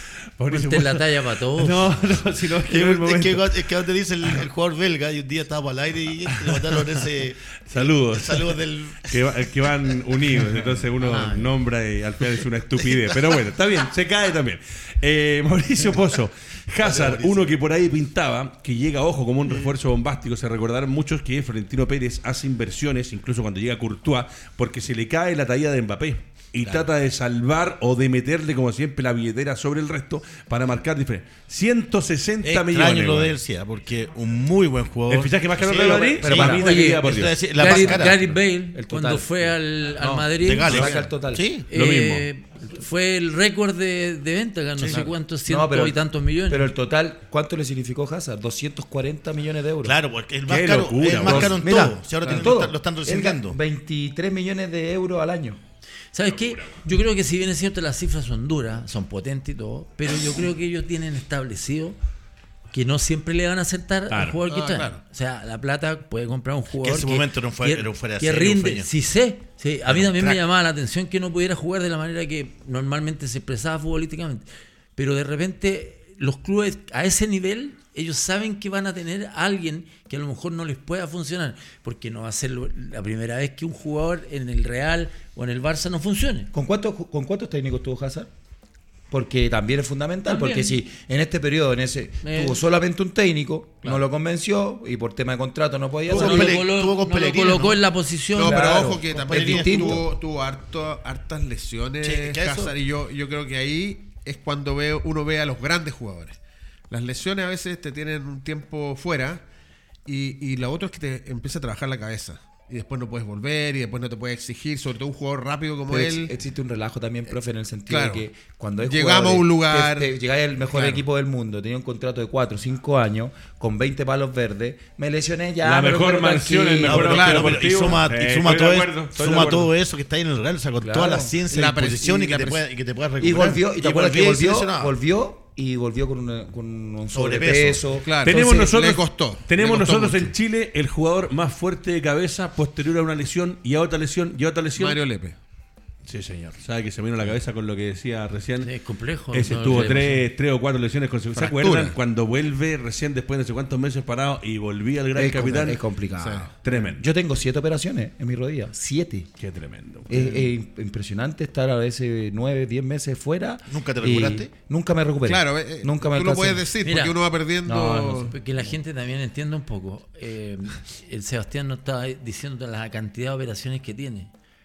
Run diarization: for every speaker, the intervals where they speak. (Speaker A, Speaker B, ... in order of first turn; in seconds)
Speaker A: 0.4-3.6, 6.3-7.0, 7.7-33.4, 35.1-37.4, 41.7-42.3, 50.5-51.6, 56.3-56.8, 64.1-64.4, 125.6-129.7, 138.2-145.0, 146.1-148.7, 149.3-155.8, 156.6-157.1, 159.4-160.3
Speaker B: 0.5-2.1, 36.5-37.0, 37.5-40.9, 41.7-46.7, 56.1-62.0, 62.7-74.4, 75.0-86.5, 90.2-90.8, 92.2-92.6, 96.1-99.9, 148.6-150.3, 166.8-167.2, 168.2-174.3
Speaker C: 2.6-9.5, 10.4-11.5, 12.9-13.1, 16.8-17.6, 26.6-26.9, 32.4-38.4, 40.4-41.7, 44.8-45.1, 49.8-53.6, 66.8-68.9, 69.9-70.4, 96.1-97.8, 99.0-100.1, 102.0-102.8, 126.8-134.9, 137.1-137.9, 163.7-164.5
Speaker D: 36.2-37.0, 37.6-38.2, 38.7-41.5, 45.5-50.0, 51.2-55.6, 86.5-88.3, 89.1-96.6, 98.4-100.0, 115.9-127.5, 130.8-131.3, 133.2-139.0, 155.2-159.3, 160.1-166.7, 167.7-168.3
Speaker E: 64.5-65.0, 98.3-106.4, 106.9-109.4, 110.0-116.3, 117.9-118.2, 118.8-120.2, 120.7-121.0, 126.9-127.5, 131.4-132.6, 138.0-140.3, 144.8-145.4, 151.4-152.0, 156.2-156.8, 165.2-168.3